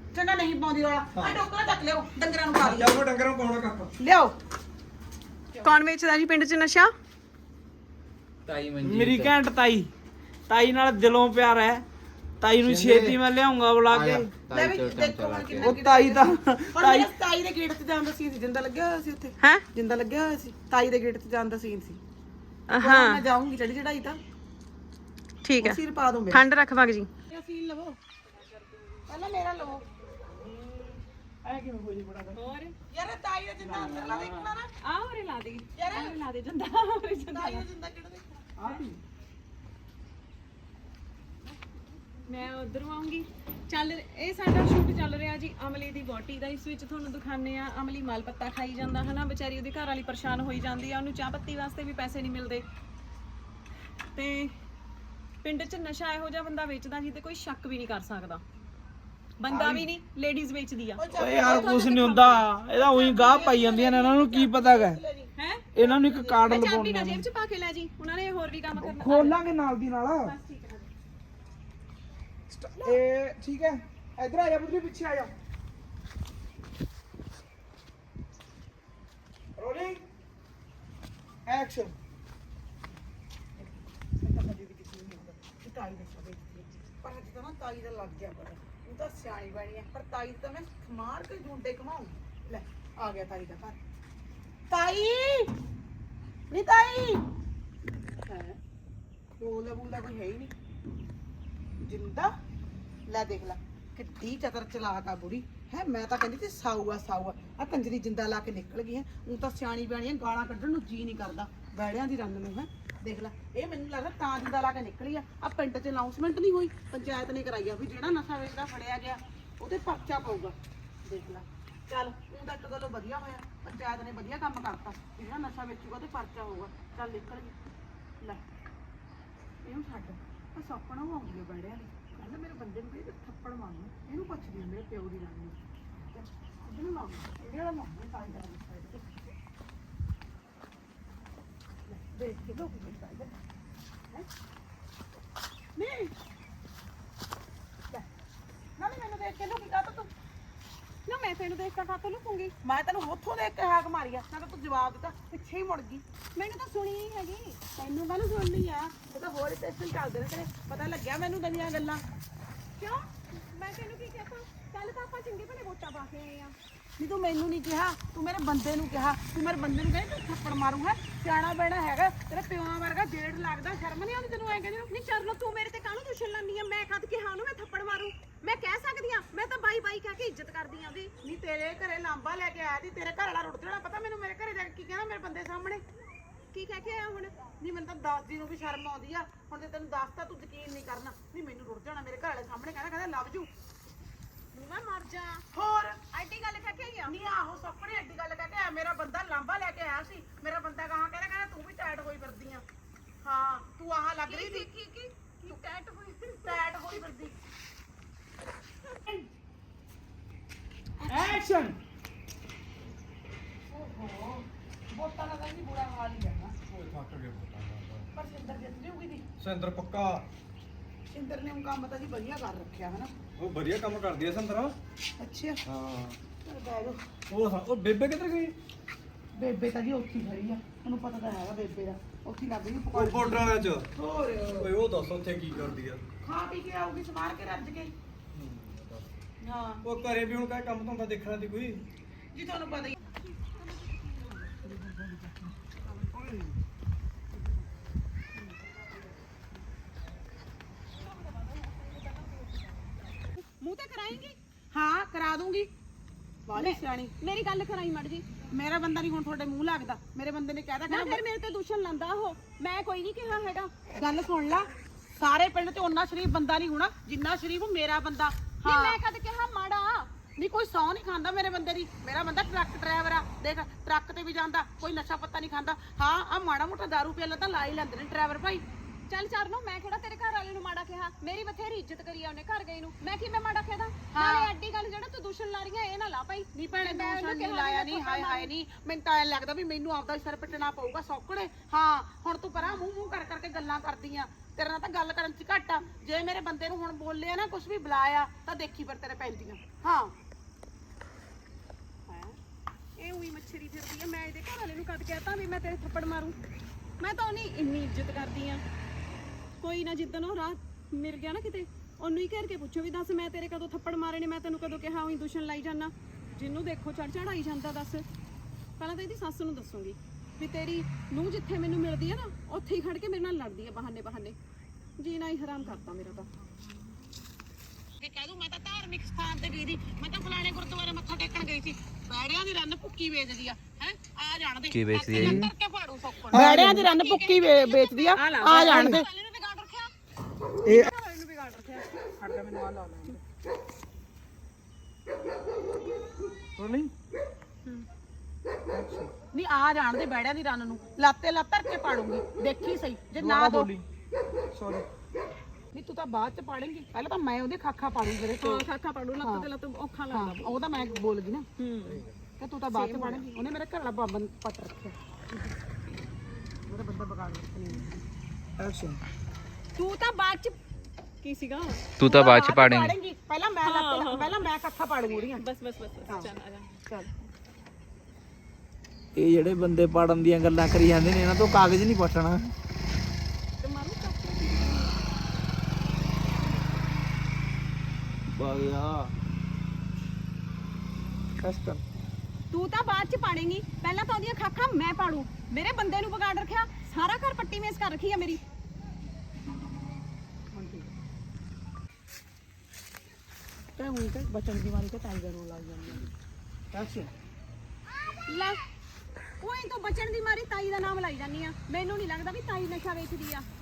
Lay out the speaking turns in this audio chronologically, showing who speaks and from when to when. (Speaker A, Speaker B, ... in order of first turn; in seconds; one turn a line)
Speaker A: 0.1-3.0
Speaker B: 1.1-1.4
Speaker B: 2.6-3.9
Speaker A: 4.0-4.3
Speaker A: 5.5-5.8
Speaker C: 5.6-6.9
Speaker D: 8.5-9.3
Speaker E: 8.8-9.9
Speaker E: 10.5-11.8
Speaker E: 12.4-14.3
Speaker D: 12.6-13.2
Speaker D: 13.9-15.7
Speaker A: 14.5-22.0
Speaker E: 15.6-17.1
Speaker C: 19.4-19.6
Speaker C: 22.7-23.2
Speaker A: 22.8-24.2
Speaker C: 25.4-25.8
Speaker A: 25.6-26.4
Speaker C: 26.3-27.1
Speaker A: 27.3-28.0
Speaker A: 29.1-29.8
Speaker E: 30.6-32.4
Speaker C: 32.4-32.8
Speaker A: 32.9-34.7
Speaker E: 33.6-34.4
Speaker C: 34.8-37.7
Speaker A: 35.8-36.2
Speaker A: 37.3-38.5
Speaker E: 38.6-39.0
Speaker C: 42.2-52.7
Speaker C: 54.1-54.5
Speaker C: 55.4-58.4
Speaker C: 59.4-63.7
Speaker E: 59.5-59.9
Speaker A: 61.0-65.3
Speaker E: 61.1-65.0
Speaker C: 65.4-69.4
Speaker E: 65.8-67.3
Speaker A: 66.0-66.6
Speaker E: 68.7-70.3
Speaker C: 70.2-70.9
Speaker E: 72.5-75.3
Speaker E: 79.6-80.0
Speaker E: 81.5-82.0
Speaker A: 83.6-93.8
Speaker A: 94.7-95.5
Speaker A: 96.5-97.2
Speaker A: 98.3-98.6
Speaker A: 99.4-100.5
Speaker A: 101.8-102.3
Speaker A: 103.1-127.6
Speaker A: 128.2-128.5
Speaker A: 129.6-139.1
Speaker A: 141.9-143.3
Speaker A: 145.8-146.1
Speaker A: 148.8-150.1
Speaker C: 151.1-152.5
Speaker A: 152.6-156.0
Speaker C: 156.4-157.6
Speaker A: 157.8-162.0
Speaker C: 162.8-166.6
Speaker A: 167.0-174.9
Speaker C: 174.9-181.1
Speaker A: 181.2-185.8
Speaker C: 186.5-187.4
Speaker A: 187.6-193.5
Speaker C: 194.5-195.5
Speaker A: 195.5-196.0
Speaker C: 196.1-197.1
Speaker A: 197.0-202.6
Speaker A: 203.2-204.7
Speaker C: 204.3-206.6
Speaker A: 206.4-207.3
Speaker A: 211.0-211.4
Speaker E: 211.1-211.8
Speaker A: 213.7-216.6
Speaker B: 216.7-218.1
Speaker A: 218.2-219.3
Speaker B: 219.4-220.2
Speaker A: 221.1-223.1
Speaker B: 223.4-224.8
Speaker A: 225.2-225.6
Speaker B: 225.7-226.2
Speaker A: 226.4-227.0
Speaker B: 227.3-228.6
Speaker A: 229.3-233.4
Speaker B: 232.9-233.9
Speaker A: 233.9-234.7
Speaker B: 234.6-236.0
Speaker A: 236.2-237.9
Speaker B: 238.3-239.1
Speaker A: 239.4-239.8
Speaker B: 239.8-241.9
Speaker A: 242.3-243.0
Speaker A: 244.2-245.3
Speaker C: 251.0-254.4
Speaker A: 254.7-255.7
Speaker A: 256.5-257.1
Speaker C: 256.6-258.3
Speaker A: 258.5-261.2
Speaker C: 260.9-263.7
Speaker A: 263.9-269.0
Speaker C: 268.6-270.1
Speaker A: 270.4-278.6
Speaker C: 279.1-288.5
Speaker A: 284.1-284.5
Speaker A: 286.6-300.1
Speaker C: 302.1-302.4
Speaker C: 303.0-306.4
Speaker C: 307.0-308.6
Speaker C: 309.6-318.0
Speaker C: 318.8-324.4
Speaker C: 325.0-326.3
Speaker A: 328.0-339.1
Speaker D: 334.7-335.4
Speaker E: 335.2-335.5
Speaker E: 336.3-336.9
Speaker C: 336.6-339.9
Speaker C: 340.6-342.0
Speaker E: 342.2-343.2
Speaker E: 346.6-346.9
Speaker E: 348.7-349.1
Speaker A: 349.3-353.7
Speaker E: 353.1-353.9
Speaker E: 354.5-354.9
Speaker A: 355.7-358.7
Speaker C: 358.4-360.8
Speaker A: 359.2-359.5
Speaker A: 360.1-361.5
Speaker C: 361.6-362.0
Speaker A: 362.4-365.0
Speaker C: 362.7-363.2
Speaker A: 366.7-368.0
Speaker E: 368.6-369.0
Speaker C: 369.8-370.6
Speaker C: 371.2-371.9
Speaker D: 372.0-372.9
Speaker A: 372.0-375.4
Speaker C: 373.7-374.3
Speaker C: 375.4-376.8
Speaker A: 376.9-377.1
Speaker E: 379.2-382.5
Speaker C: 383.6-384.9
Speaker A: 384.3-384.6
Speaker E: 388.3-389.1
Speaker E: 391.4-391.8
Speaker C: 392.5-398.4
Speaker A: 400.5-400.9
Speaker A: 403.8-406.1
Speaker E: 406.8-407.1
Speaker C: 408.3-408.6
Speaker C: 409.4-413.5